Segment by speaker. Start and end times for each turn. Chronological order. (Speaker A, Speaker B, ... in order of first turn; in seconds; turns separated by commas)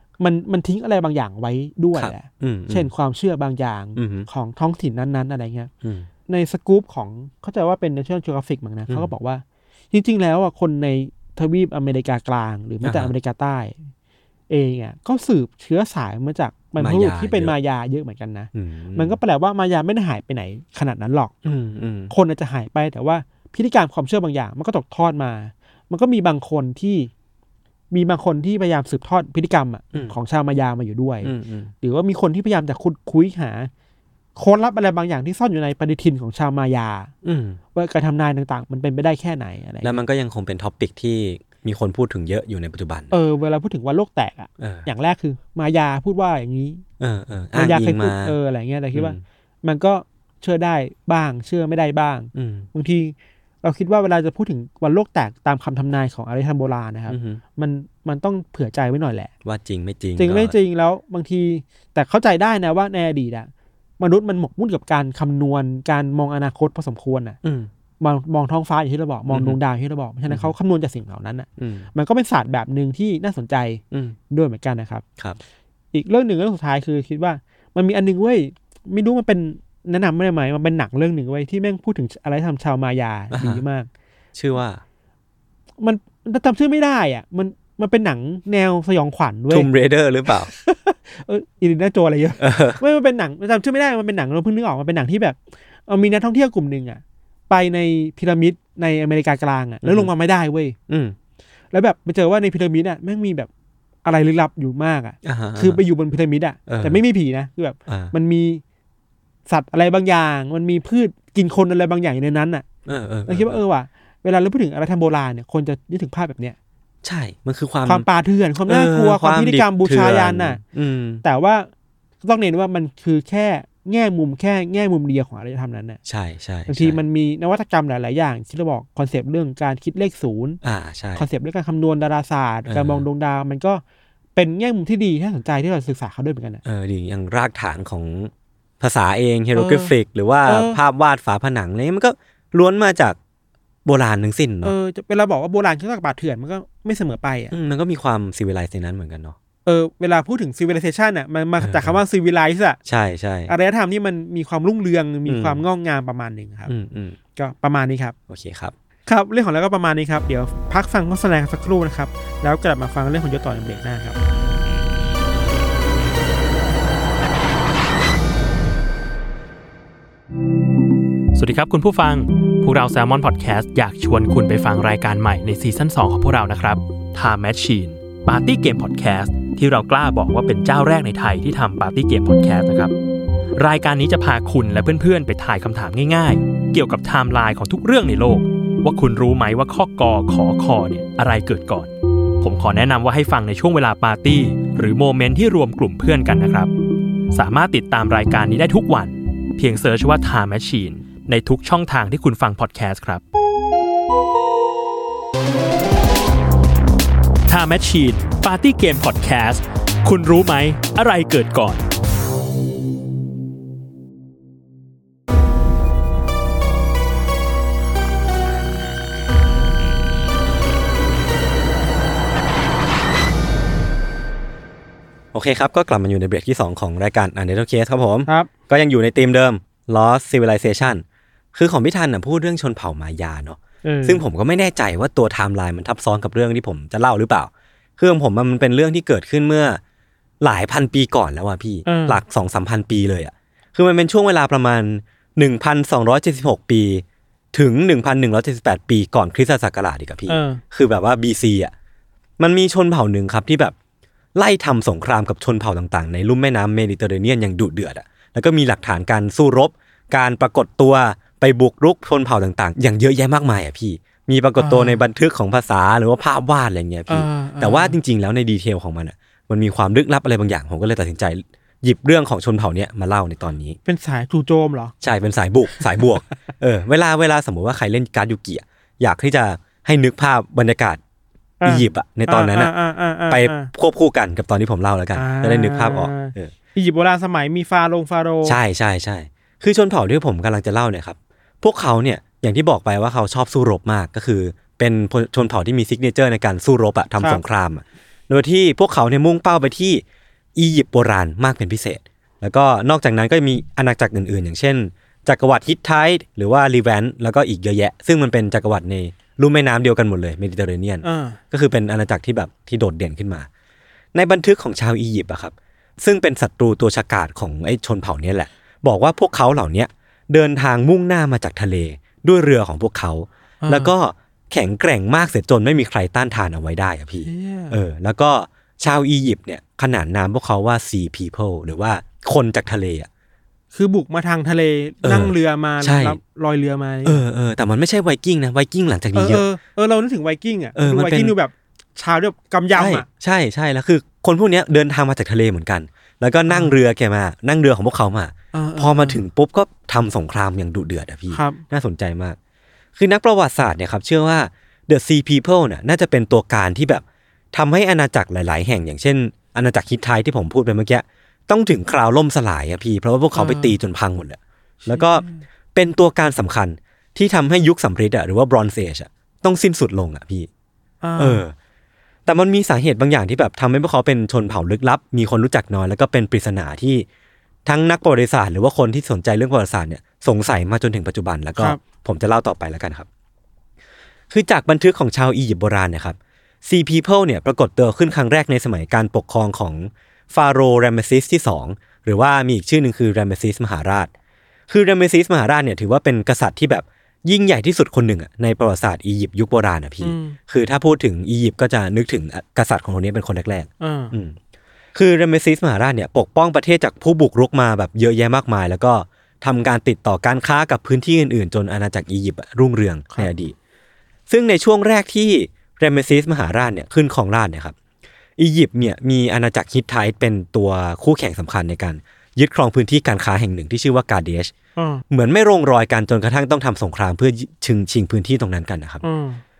Speaker A: 0.2-5.7, Speaker B: 2.0-2.9, Speaker B: 4.0-4.3, Speaker B: 5.8-6.1, Speaker A: 6.3-13.8, Speaker B: 12.8-13.1, Speaker A: 14.5-21.3, Speaker B: 16.8-17.5, Speaker B: 18.5-19.2, Speaker B: 21.4-22.1, Speaker A: 22.1-27.1, Speaker A: 27.9-33.7, Speaker B: 31.2-31.7, Speaker A: 34.4-37.1, Speaker B: 37.2-37.6, Speaker A: 37.7-39.9, Speaker B: 39.8-43.1, Speaker A: 43.1-46.8, Speaker B: 44.6-44.9, Speaker B: 47.0-48.4, Speaker A: 47.5-59.3, Speaker B: 48.9-49.2, Speaker B: 52.3-52.7, Speaker B: 57.1-57.4, Speaker B: 59.4-60.5, Speaker A: 60.2-67.4, Speaker B: 67.4-67.7, Speaker A: 68.0-75.0, Speaker B: 69.3-69.6, Speaker B: 71.6-71.9, Speaker B: 73.9-74.2, Speaker A: 75.9-83.9, Speaker B: 83.3-83.6, Speaker B: 84.3-84.8, Speaker A: 85.8-89.7, Speaker B: 89.5-90.5, Speaker A: 90.5-100.8, Speaker B: 92.4-92.8, Speaker B: 99.8-100.1, Speaker B: 100.9-101.2, Speaker A: 101.7-103.5, Speaker A: 104.0-108.6, Speaker B: 105.2-105.8, Speaker B: 106.7-107.0, Speaker B: 107.9-108.1, Speaker A: 109.5-112.6, Speaker B: 112.8-113.6, Speaker A: 113.2-116.5, Speaker B: 117.0-118.0, Speaker A: 117.8-120.6, Speaker B: 118.7-121.2, Speaker A: 121.2-121.7, Speaker A: 122.2-126.0, Speaker B: 126.0-127.0, Speaker A: 126.7-130.6, Speaker B: 130.6-131.2, Speaker A: 131.2-133.8, Speaker B: 132.7-133.0, Speaker A: 134.3-136.6, Speaker B: 136.6-143.2, Speaker A: 139.5-139.9, Speaker A: 140.4-140.8, Speaker B: 143.8-144.7, Speaker A: 144.6-147.5, Speaker B: 147.5-149.3, Speaker A: 149.7-152.8, Speaker B: 151.6-152.0, Speaker B: 152.8-153.5, Speaker A: 153.5-156.7, Speaker B: 155.2-155.6, Speaker B: 156.7-157.2, Speaker A: 157.3-158.1, Speaker B: 158.3-158.7, Speaker A: 159.1-164.2, Speaker C: 171.3-182.9, Speaker C: 183.6-196.7, Speaker C: 197.3-203.2, Speaker C: 207.5-211.8, Speaker B: 225.3-239.8, Speaker A: 233.8-234.2, Speaker B: 240.4-251.7, Speaker A: 241.8-242.2, Speaker A: 250.3-250.6, Speaker B: 252.4-253.7, Speaker B: 254.3-273.8, Speaker A: 264.6-265.0, Speaker A: 267.1-268.0, Speaker A: 273.9-274.9, Speaker B: 275.0-281.0, Speaker A: 281.6-283.7, Speaker B: 281.6-282.7, Speaker B: 283.3-286.5, Speaker A: 285.1-288.6, Speaker B: 288.4-300.0, Speaker B: 300.6-313.5, Speaker A: 311.0-311.4, Speaker B: 314.1-333.1, Speaker A: 323.6-323.9, Speaker A: 327.2-327.8, Speaker A: 333.7-337.2, Speaker B: 335.0-336.2, Speaker B: 337.0-339.4, Speaker A: 339.1-343.1, Speaker B: 340.7-341.3, Speaker B: 342.7-352.4, Speaker A: 346.5-346.8, Speaker A: 348.5-349.2, Speaker A: 351.3-351.6, Speaker B: 352.9-365.2, Speaker A: 363.3-363.7, Speaker A: 364.8-365.4, Speaker B: 365.7-370.5, Speaker A: 371.0-371.4, Speaker B: 371.2-371.5, Speaker B: 372.2-377.1, Speaker B: 377.6-383.1, Speaker B: 384.3-394.1, Speaker B: 394.7-404.4, Speaker A: 400.0-400.4, Speaker A: 403.8-404.1, Speaker B: 404.9-413.5, Speaker B: 414.3-417.7, Speaker B: 418.4-424.5, Speaker A: 424.8-425.0, Speaker B: 425.1-429.0, Speaker A: 429.0-429.4